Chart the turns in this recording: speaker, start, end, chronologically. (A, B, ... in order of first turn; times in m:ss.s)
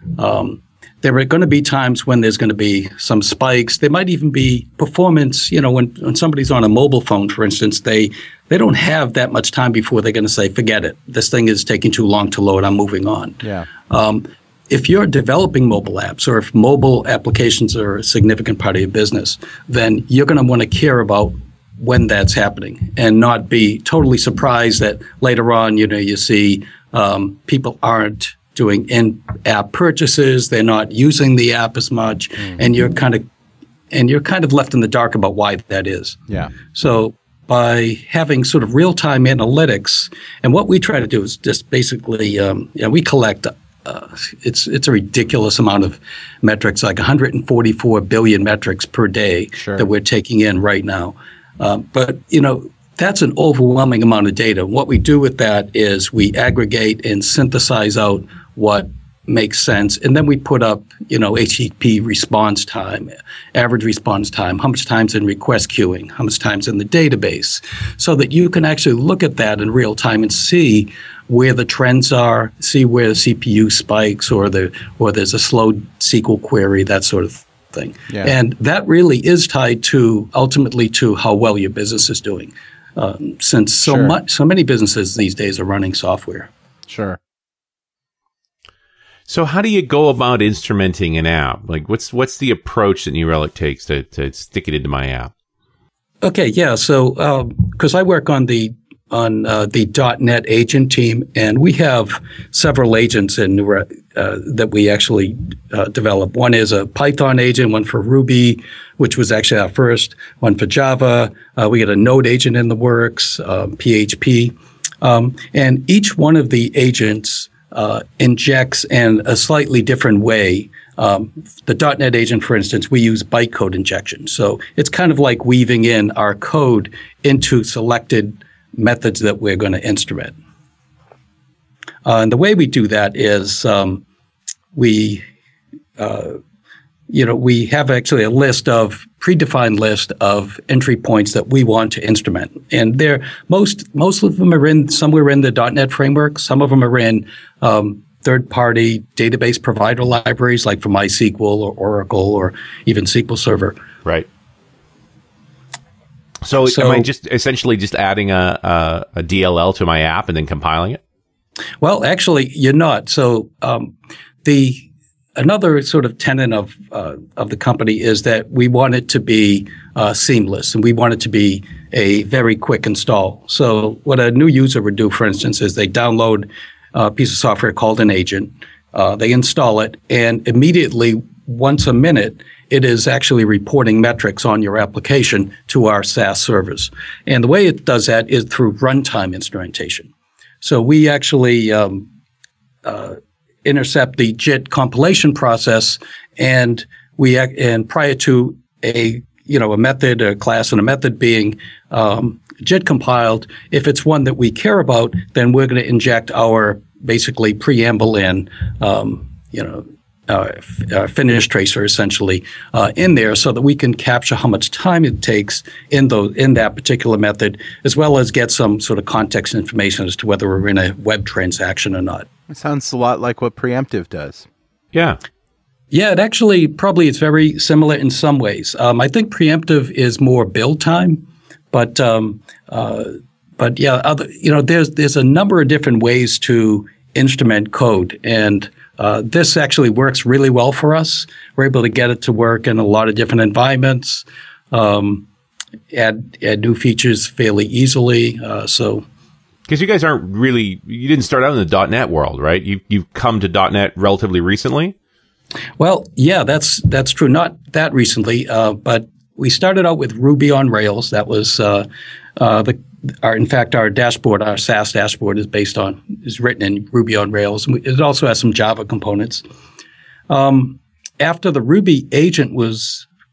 0:00.1-0:33.2 A
0:13.4-0:13.7 B
0:33.9-1:26.5 A
0:49.6-0:49.9 B
1:23.8-1:24.1 B
1:26.9-1:27.2 B
1:29.3-1:35.3 C
1:36.2-2:10.3 A
2:12.0-2:14.0 A
2:14.7-2:15.2 A
2:16.0-2:16.4 A
2:17.1-2:33.8 A
2:36.4-2:41.0 C
2:36.7-2:37.1 A
2:41.8-2:43.9 A
2:44.4-3:10.1 A
3:10.6-3:12.1 A
3:12.8-3:42.3 A
3:42.5-3:44.5 B
3:44.9-3:45.2 C
3:45.9-4:05.2 A
4:05.9-4:09.0 A
4:09.7-4:14.9 C
4:15.8-4:29.4 A
4:30.3-4:33.0 A